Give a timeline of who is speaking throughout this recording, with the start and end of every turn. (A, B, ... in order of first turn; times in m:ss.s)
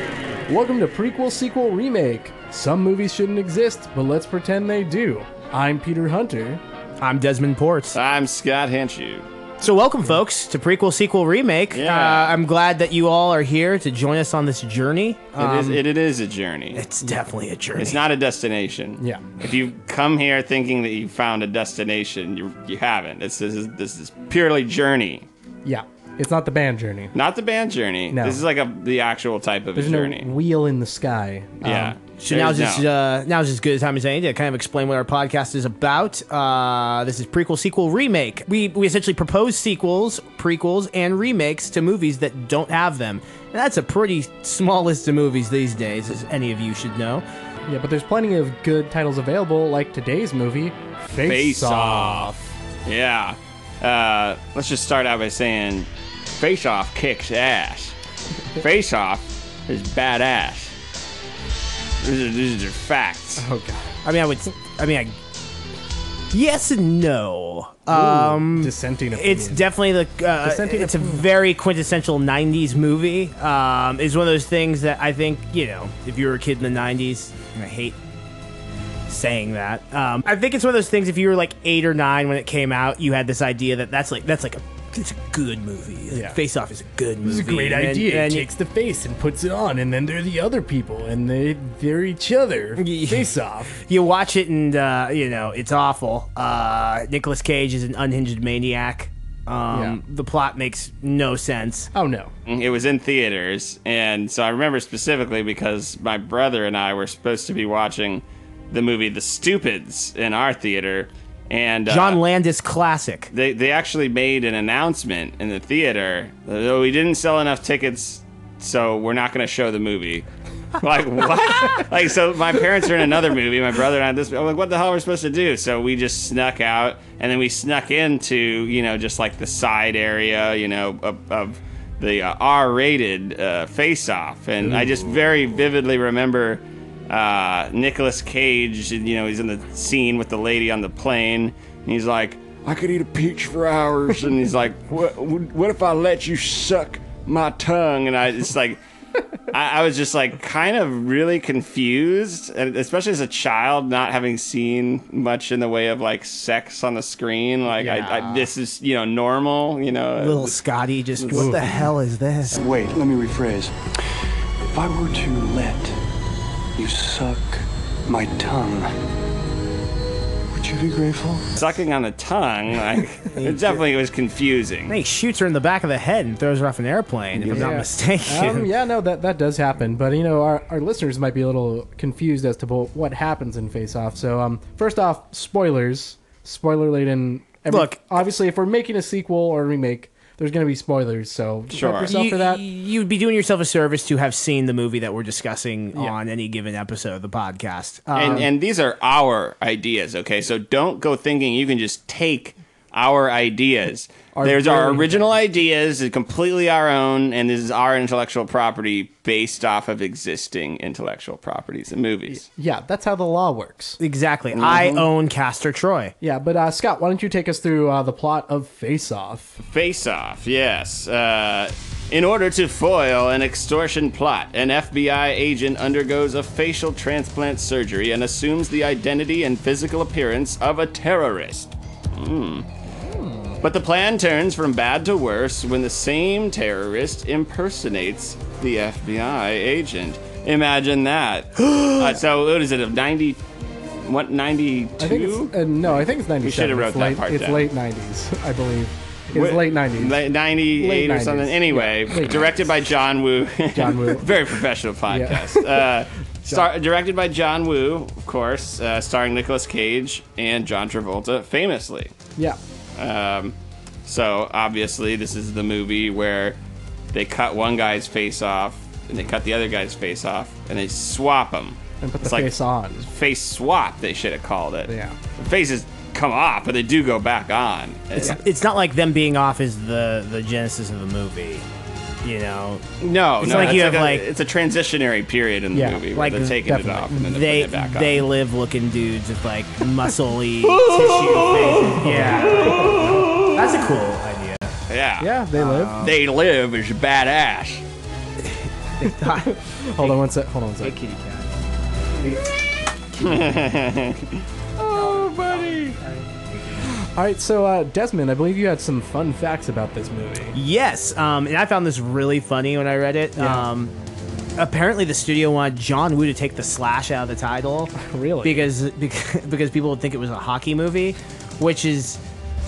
0:00.5-0:06.6 A
0:07.0-0:08.0 B
0:07.9-0:09.2 C
0:09.6-0:15.8 B
0:11.7-0:12.4 C
0:15.4-0:16.8 C
0:16.7-0:18.0 B
0:17.8-0:25.3 C
0:19.0-0:19.2 A
0:25.6-0:27.1 A
0:27.1-0:30.3 C
0:28.1-0:28.4 A
0:29.7-0:32.0 A
0:31.6-0:32.8 C
0:32.2-0:47.2 B
0:47.7-0:52.5 A
0:51.2-0:52.3 C
0:52.8-0:58.0 C
0:58.6-1:00.7 C
1:02.0-1:03.4 C
1:03.4-1:03.9 A
1:04.0-1:05.2 B
1:06.3-1:18.0 B
1:07.9-1:09.7 A
1:10.4-1:11.3 A
1:19.1-1:28.5 B
1:26.1-1:26.4 A
1:27.2-1:33.7 A
1:32.8-1:41.9 B
1:39.7-1:40.0 A
1:41.9-1:42.3 A
1:42.5-1:52.2 C
1:51.9-1:53.3 B
1:53.3-2:00.2 C
2:00.8-2:28.8 C
2:29.5-2:40.6 C
2:37.8-2:38.4 B
2:37.8-2:38.1 A
2:40.2-2:42.6 B
2:41.2-2:41.8 C
2:41.3-2:41.8 A
2:42.5-2:43.7 D
2:44.7-2:46.0 D
2:46.8-2:48.9 D
2:50.5-2:51.5 D
2:51.6-2:55.0 C
2:53.3-2:53.8 B
2:54.9-2:58.7 B
2:57.5-3:12.6 A
3:07.7-3:08.0 B
3:11.7-3:12.1 C
3:12.0-3:18.5 B
3:18.1-3:18.4 A
3:18.1-3:32.4 C
3:24.3-3:25.2 A
3:32.3-3:34.0 A
3:34.0-3:36.1 B
3:34.5-3:35.0 C
3:36.2-3:39.6 A
3:39.6-3:52.7 C
3:53.0-3:53.6 A
3:53.6-4:03.4 C
4:04.0-4:07.7 C
4:05.0-4:10.2 A
4:09.3-4:22.1 C
4:10.8-4:12.7 A
4:13.7-4:14.4 A
4:15.1-4:15.9 A
4:23.0-4:26.6 C
4:27.1-4:38.4 C
4:32.0-4:33.0 A
4:34.9-4:35.2 A
4:38.2-4:41.6 B
4:42.2-4:44.3 B
4:43.0-4:48.3 C
4:45.7-4:47.1 A
4:46.1-4:46.6 B
4:47.1-4:54.7 B
4:50.6-4:53.5 C
4:52.0-4:53.4 A
4:54.9-4:55.3 C
4:55.2-4:56.0 A
4:55.5-4:56.2 B
4:56.0-4:57.8 C
4:58.4-5:00.2 B
4:59.2-5:01.0 A
5:00.8-5:01.5 B
5:03.1-5:03.6 B
5:03.2-5:06.0 C
5:04.9-5:06.9 B
5:06.9-5:10.6 A
5:10.5-5:13.9 B
5:13.4-5:13.6 A
5:14.6-5:22.2 B
5:18.0-5:18.7 A